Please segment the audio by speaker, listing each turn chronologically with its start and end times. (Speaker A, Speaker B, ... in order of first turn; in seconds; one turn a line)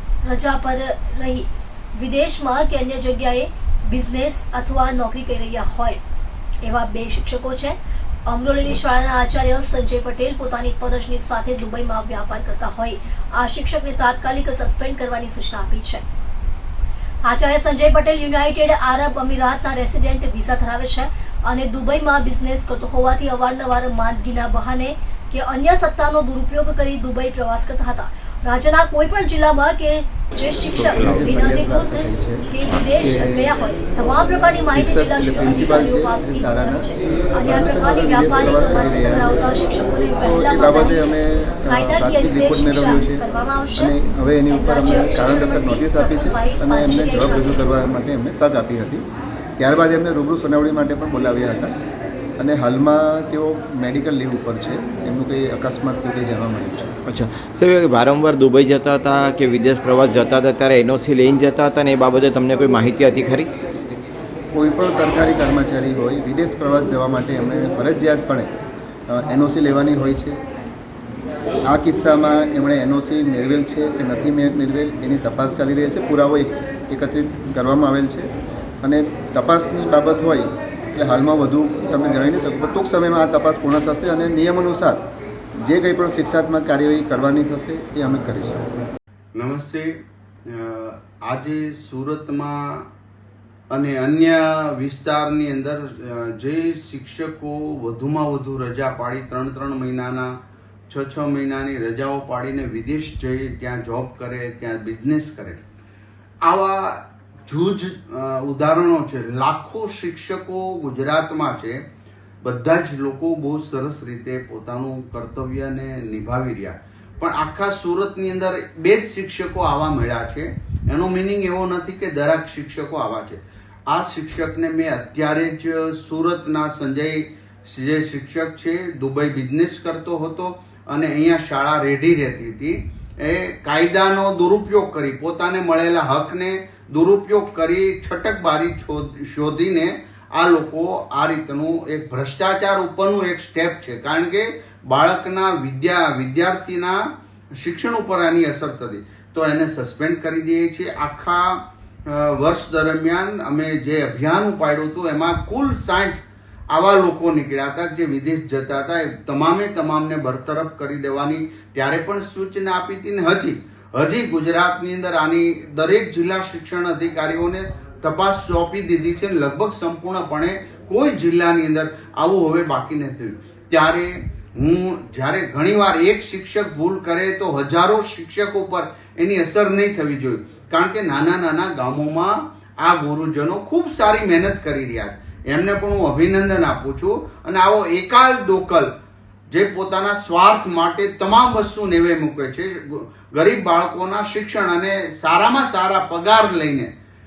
Speaker A: 0.2-6.0
Speaker A: 6.6-16.0
Speaker A: 17.2-41.0
Speaker B: 30.9-32.5
Speaker B: 33.0-33.5
Speaker B: 34.7-36.9
Speaker B: 37.4-39.5
Speaker B: 40.2-43.2
Speaker A: 41.7-44.0
Speaker B: 43.8-49.0
Speaker A: 44.5-47.8
Speaker B: 49.6-51.8
Speaker B: 52.4-56.9
Speaker C: 57.0-63.5
Speaker B: 64.5-68.5
Speaker B: 69.1-70.4
Speaker B: 71.7-78.3
Speaker B: 78.8-85.0
Speaker B: 85.6-88.7
Speaker D: 89.3-92.8
Speaker D: 93.7-100.3
Speaker D: 100.9-105.6
Speaker D: 106.4-111.8
Speaker D: 112.4-147.0
Speaker D: 147.6-188.9
Speaker D: 189.5-196.9